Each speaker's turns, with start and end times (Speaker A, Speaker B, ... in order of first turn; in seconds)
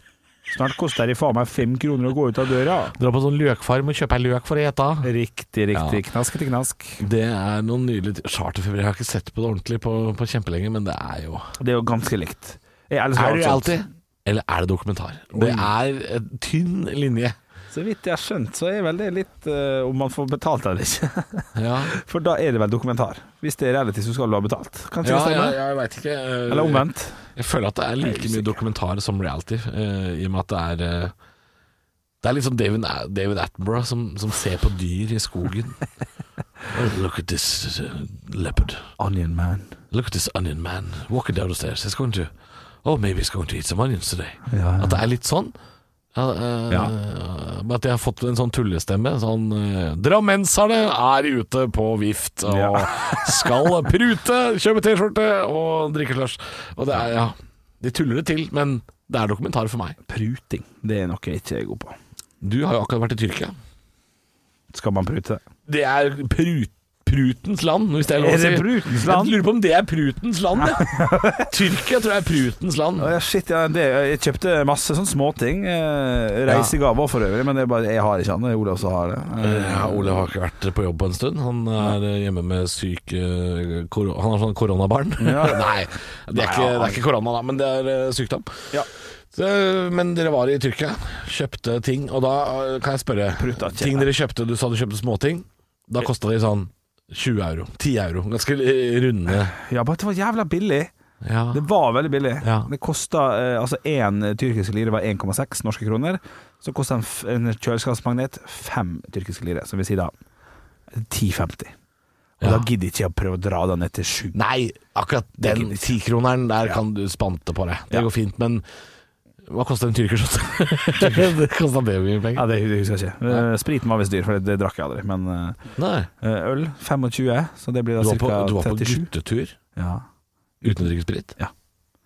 Speaker A: 0.5-3.0, 5.0-7.0, 11.6-13.8, 15.3-15.7, 17.7-25.6, 26.5-27.2, 28.0-28.6, 39.0-39.7, 44.5-45.0, 52.5-53.7, 60.1-62.0, 64.7-65.4, 68.2-69.4, 70.6-71.5, 73.0-80.2, 85.2-85.7, 86.3-87.0, 93.4-94.1, 99.4-100.9, 101.5-110.1, 110.9-111.7, 112.4-114.4, 115.4-115.9, 121.0-121.3, 122.4-125.7, 126.2-129.1, 129.8-130.1, 130.6-131.5
Speaker B: 3.0-5.1, 5.7-6.0, 7.0-11.5, 13.2-17.4, 21.6-21.9, 25.0-31.1, 32.2-35.8, 36.7-38.9, 39.9-42.3, 42.8-45.5, 46.1-60.0, 62.4-63.5, 65.7-73.1, 76.5-76.7, 79.4-88.7, 89.3-99.5, 101.2-101.6, 102.4-102.7, 112.4-112.7, 114.3-118.7, 119.5-122.5, 125.8-126.1, 128.0-129.6, 130.6-131.3